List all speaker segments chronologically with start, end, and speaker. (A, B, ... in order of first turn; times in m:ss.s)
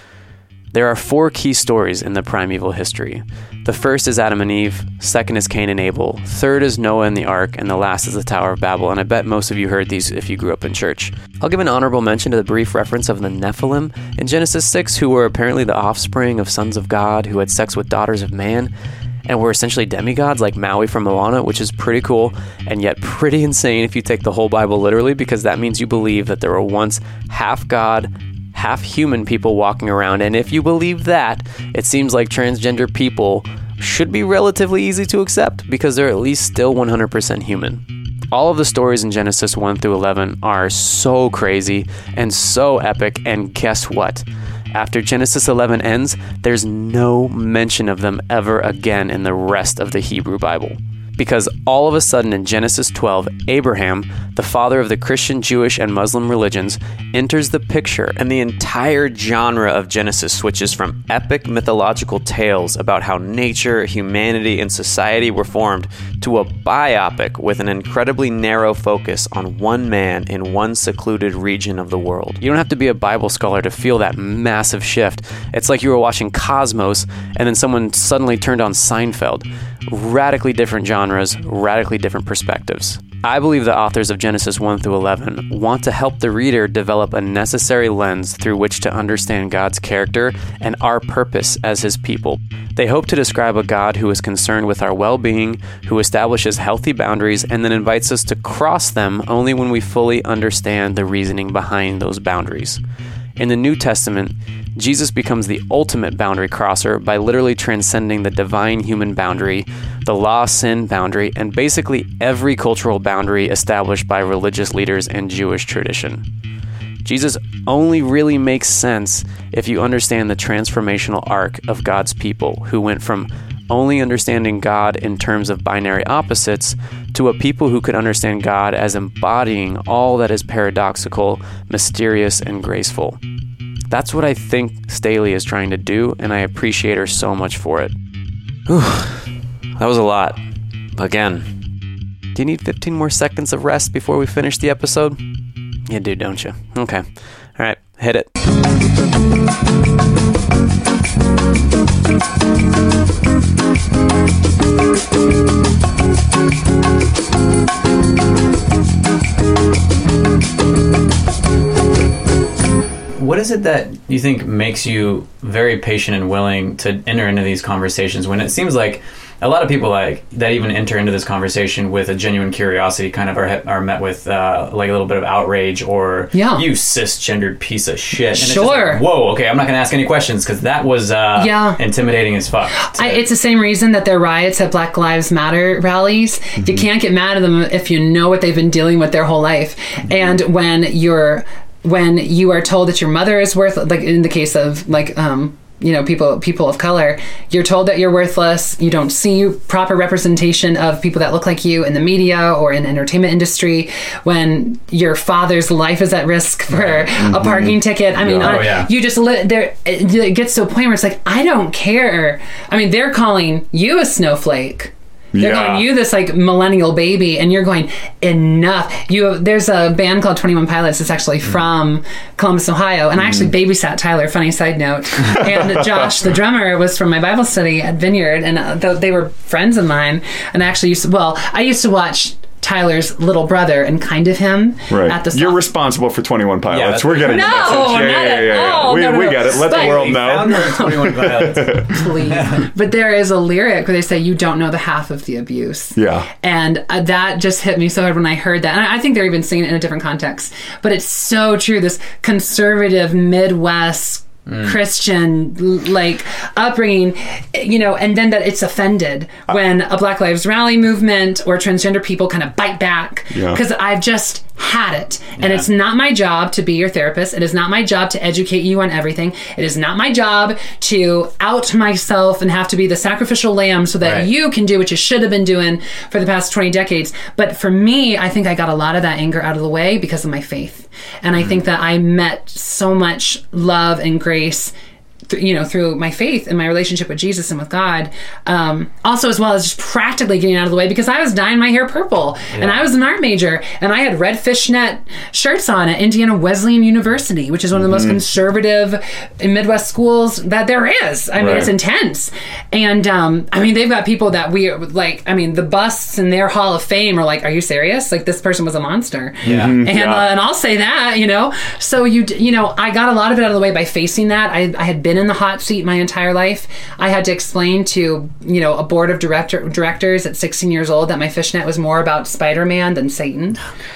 0:00.7-0:18.7 A
0:19.2-1:42.8 A
1:43.4-1:56.2 A
1:57.0-2:13.2 A
2:13.9-2:17.9 A
2:18.7-2:20.4 A
2:21.0-2:21.5 A
2:22.3-2:25.2 A
2:25.9-2:27.0 A
2:27.6-2:28.3 A
2:43.2-3:03.2 B
2:56.3-2:56.6 C
2:58.3-2:59.0 C
3:01.4-3:01.8 C
3:02.9-3:55.6 C
3:27.2-3:28.6 D
3:28.4-3:28.9 B
3:35.3-3:35.9 D
3:43.2-3:43.5 D
3:45.3-3:46.1 D
3:54.9-4:02.0 D
3:56.7-3:58.0 B
3:57.3-4:44.7 C
3:59.6-4:02.6 B
4:06.0-4:06.3 D
4:14.5-4:14.7 B
4:23.3-4:23.6 D
4:25.4-4:25.6 B
4:34.0-4:34.3 B
4:45.3-5:23.6 C
4:52.5-4:52.8 B
4:57.7-4:58.2 D
5:01.4-5:01.7 D
5:09.4-5:09.8 B
5:09.4-5:10.3 D